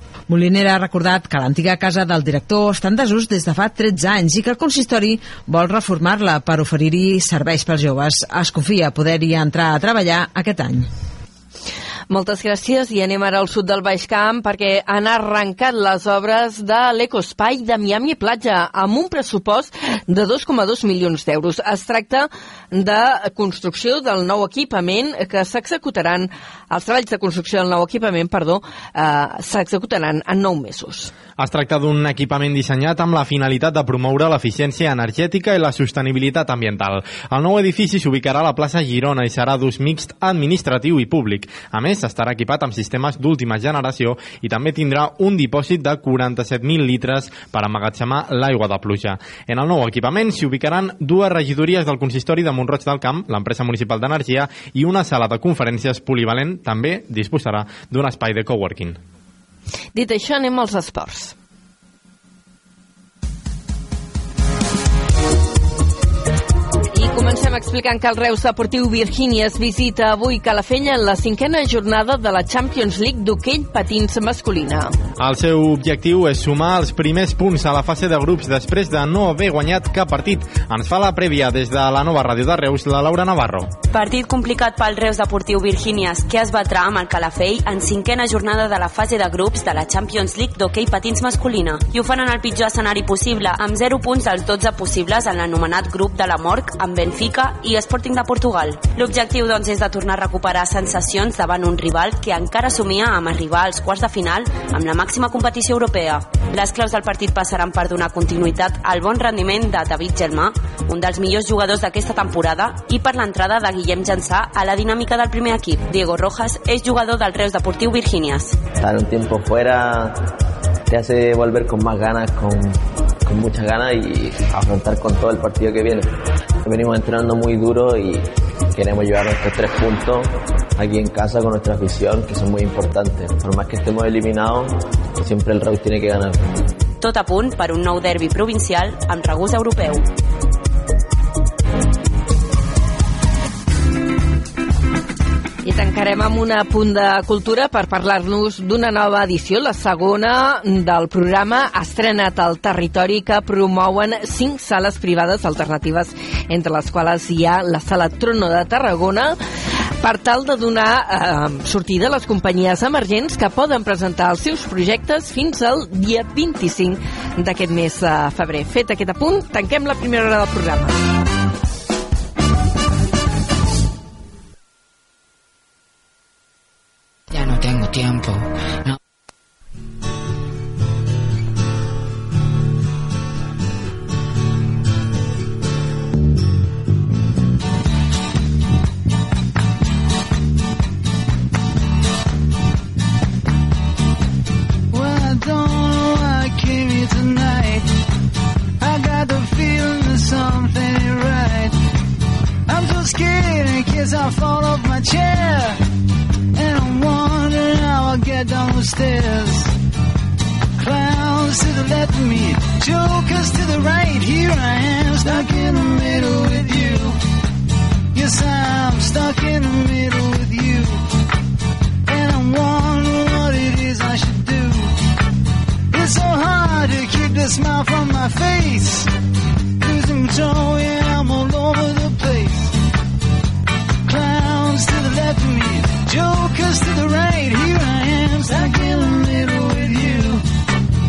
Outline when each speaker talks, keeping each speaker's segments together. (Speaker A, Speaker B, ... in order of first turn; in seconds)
Speaker A: 0.3-10.9
Speaker B: 12.1-31.1, 60.0-61.3, 66.9-74.9, 145.6-159.4, 160.0-171.0
Speaker C: 31.4-59.0, 75.2-83.7
Speaker D: 83.9-118.6, 137.0-140.1
Speaker E: 118.8-120.3, 120.9-126.1, 126.6-136.4
Speaker F: 194.9-197.9, 198.8-201.7, 202.7-205.8, 206.6-209.7, 210.8-217.2, 218.1-221.0, 222.1-224.9, 225.9-229.1, 229.8-232.7, 234.1-240.4